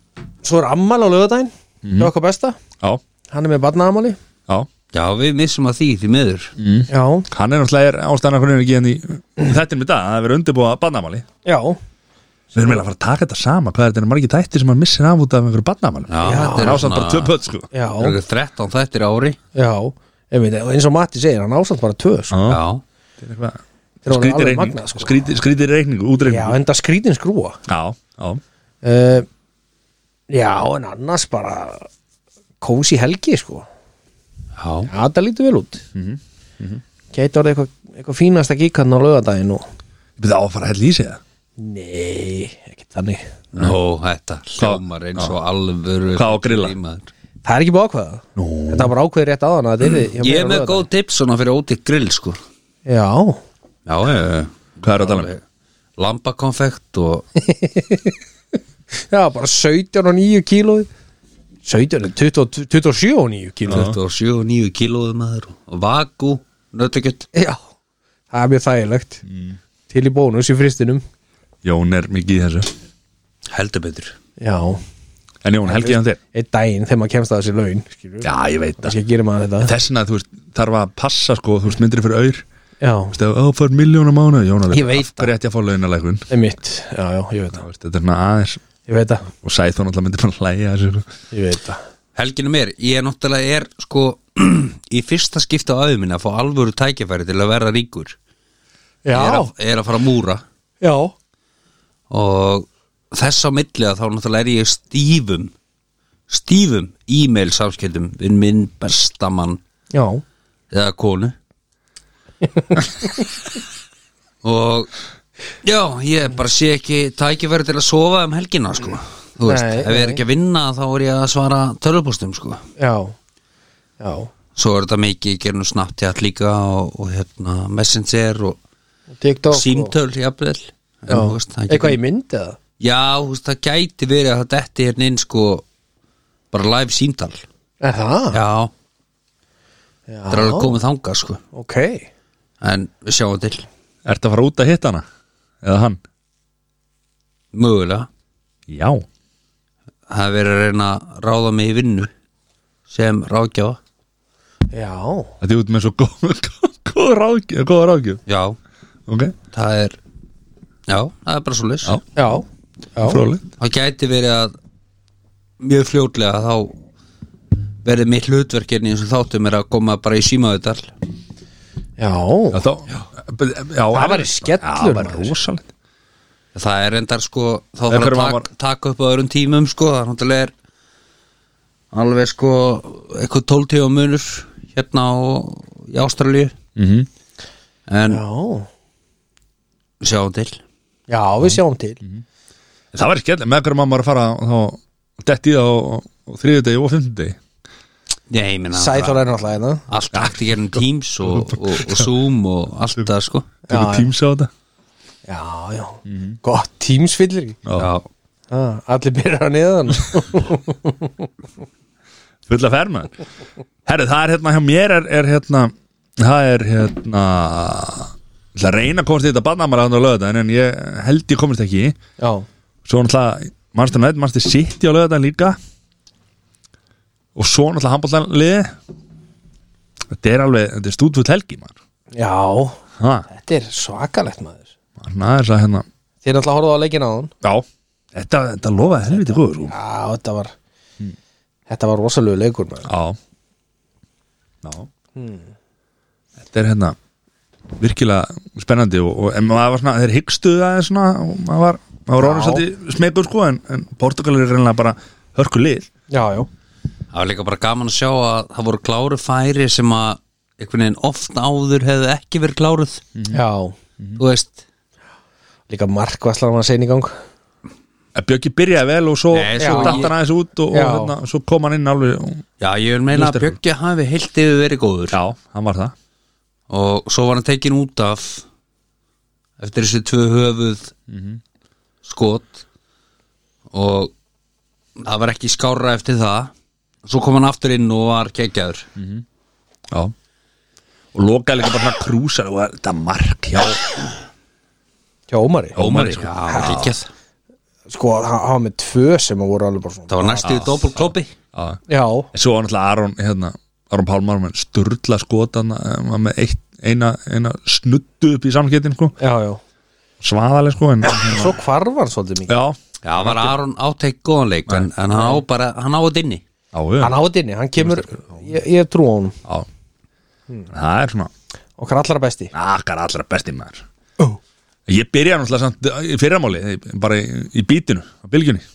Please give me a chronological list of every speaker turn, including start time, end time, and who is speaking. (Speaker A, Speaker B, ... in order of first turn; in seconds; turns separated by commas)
Speaker A: 0.4-2.6, Speaker B: 1.8-2.1, Speaker A: 3.3-4.2, Speaker C: 4.9-6.5, Speaker B: 6.6-11.2, Speaker A: 6.9-7.3, Speaker A: 11.4-11.8, Speaker B: 12.5-17.7, Speaker C: 16.1-17.4, Speaker A: 16.2-16.9, Speaker A: 17.7-18.2, Speaker C: 18.0-19.4, Speaker A: 19.5-22.3, Speaker B: 22.3-22.6, Speaker C: 22.4-22.8, Speaker B: 23.2-26.6, Speaker A: 24.0-25.3, Speaker A: 26.2-27.6, Speaker B: 27.7-28.4, Speaker A: 28.8-29.3, Speaker A: 30.3-31.9, Speaker A: 32.6-33.7, Speaker C: 34.6-34.9, Speaker A: 34.9-35.8, Speaker B: 35.9-36.8, Speaker A: 37.1-39.6, Speaker B: 40.2-41.2, Speaker A: 41.6-43.3, Speaker C: 43.5-47.1, Speaker B: 44.6-45.3, Speaker B: 46.1-46.7, Speaker A: 47.4-50.9, Speaker B: 48.4-48.9, Speaker C: 49.8-52.4, Speaker A: 52.9-53.4, Speaker C: 53.9-55.4, Speaker B: 54.8-55.3, Speaker C: 56.0-57.2, Speaker A: 57.4-58.1, Speaker A: 59.1-60.9, Speaker A: 61.6-63.9, Speaker C: 63.6-67.2, Speaker B: 63.7-64.0, Speaker A: 67.3-67.6, Speaker A: 68.3-69.2, Speaker B: 69.3-69.6, Speaker A: 69.9-71.0, Speaker B: 71.6-72.7, Speaker C: 73.5-74.2, Speaker A: 74.4-74.8, Speaker B: 75.4-76.2, Speaker A: 75.6-78.3, Speaker B: 78.2-78.9, Speaker A: 78.8-79.7, Speaker B: 79.6-82.4, Speaker A: 82.8-83.2, Speaker B: 83.1-86.2, Speaker A: 84.7-85.3, Speaker A: 86.3-87.6, Speaker B: 87.6-88.6, Speaker A: 88.8-89.3, Speaker B: 89.4-91.1, Speaker A: 91.3-91.8, Speaker C: 92.2-98.2, Speaker A: 99.0-99.5, Speaker C: 99.1-100.4, Speaker A: 100.8-101.1, Speaker C: 102.1-105.5, Speaker C: 106.3-109.6, Speaker A: 109.9-110.2, Speaker C: 110.7-111.3, Speaker A: 112.5-113.2, Speaker C: 114.4-114.9, Speaker C: 115.6-122.6, Speaker A: 119.5-120.2, Speaker A: 122.8-123.1, Speaker A: 124.0-124.3, Speaker C: 124.5-128.6, Speaker A: 129.1-129.9, Speaker C: 129.5-132.0, Speaker A: 131.1-132.6, Speaker C: 132.8-135.6, Speaker C: 136.5-137.4, Speaker A: 137.8-138.4, Speaker C: 138.3-138.7, Speaker A: 140.1-140.8, Speaker C: 140.3-141.4, Speaker A: 141.5-142.1, Speaker C: 142.6-143.7, Speaker B: 144.1-145.0, Speaker B: 145.6-146.0, Speaker C: 147.5-148.1, Speaker B: 148.7-149.1, Speaker C: 150.1-152.1, Speaker C: 152.9-153.8, Speaker A: 154.7-155.3, Speaker B: 155.4-158.2, Speaker C: 158.3-158.6, Speaker B: 159.1-159.3, Speaker C: 159.5-160.0, Speaker C: 160.9-162.0, Speaker A: 162.2-163.2, Speaker B: 163.1-163.4, Speaker C: 163.6-164.6, Speaker C: 165.6-166.7, Speaker C: 167.8-170.9, Speaker A: 172.0-172.6, Speaker B: 172.5-175.7, Speaker A: 173.9-175.3, Speaker C: 176.5-180.5, Speaker B: 177.9-178.4, Speaker C: 181.9-186.5, Speaker B: 186.8-187.1, Speaker C: 187.9-188.2, Speaker A: 188.1-188.7, Speaker C: 190.0-190.6, Speaker A: 191.1-192.0, Speaker B: 191.4-192.2, Speaker B: 192.9-197.4, Speaker C: 198.3-199.3, Speaker A: 198.7-199.8, Speaker C: 199.9-203.5, Speaker B: 200.1-202.1, Speaker A: 203.7-204.1, Speaker B: 203.7-204.5, Speaker A: 205.3-207.6, Speaker B: 206.1-206.4, Speaker B: 207.6-207.9, Speaker C: 207.8-208.1, Speaker A: 208.5-211.3, Speaker B: 212.5-213.1, Speaker B: 213.8-221.9, Speaker A: 222.2-222.4, Speaker B: 222.8-225.6, Speaker B: 227.3-228.7, Speaker B: 230.1-231.7, Speaker A: 232.1-234.7, Speaker B: 233.0-233.2, Speaker B: 235.0-235.8, Speaker A: 236.2-237.3, Speaker B: 237.4-239.7, Speaker A: 239.1-240.5, Speaker A: 241.7-242.9, Speaker B: 242.8-243.2, Speaker B: 244.6-244.9, Speaker A: 245.2-245.5, Speaker B: 246.4-246.9, Speaker B: 247.8-255.9, Speaker A: 252.2-252.7, Speaker A: 256.1-256.5, Speaker C: 257.1-263.0, Speaker A: 263.3-263.8, Speaker C: 264.2-264.6, Speaker A: 265.7-267.1, Speaker B: 268.1-272.4, Speaker C: 269.3-270.1, Speaker A: 269.6-270.1, Speaker A: 270.7-271.1, Speaker C: 272.6-275.2, Speaker B: 273.1-273.6, Speaker B: 275.1-275.9, Speaker C: 276.7-278.4, Speaker C: 279.6-280.9, Speaker B: 281.1-281.4, Speaker C: 282.0-282.6, Speaker C: 283.7-284.1, Speaker C: 285.0-286.5, Speaker C: 287.0-288.9, Speaker B: 289.0-289.2, Speaker B: 291.1-293.9, Speaker A: 295.3-295.8, Speaker B: 295.8-296.9, Speaker C: 295.8-297.1, Speaker A: 296.5-296.9, Speaker A: 297.9-300.7, Speaker C: 300.1-301.3, Speaker B: 300.4-300.9, Speaker B: 301.5-301.8, Speaker A: 301.9-302.3, Speaker B: 302.3-309.1, Speaker A: 309.2-309.6, Speaker B: 310.2-311.6, Speaker A: 311.0-312.5, Speaker B: 312.5-313.6, Speaker C: 313.0-316.4, Speaker A: 315.1-315.4, Speaker B: 316.7-317.1, Speaker A: 317.0-319.4, Speaker B: 317.8-318.1, Speaker B: 320.7-321.3, Speaker A: 321.8-322.5, Speaker B: 322.5-323.8, Speaker B: 324.9-328.6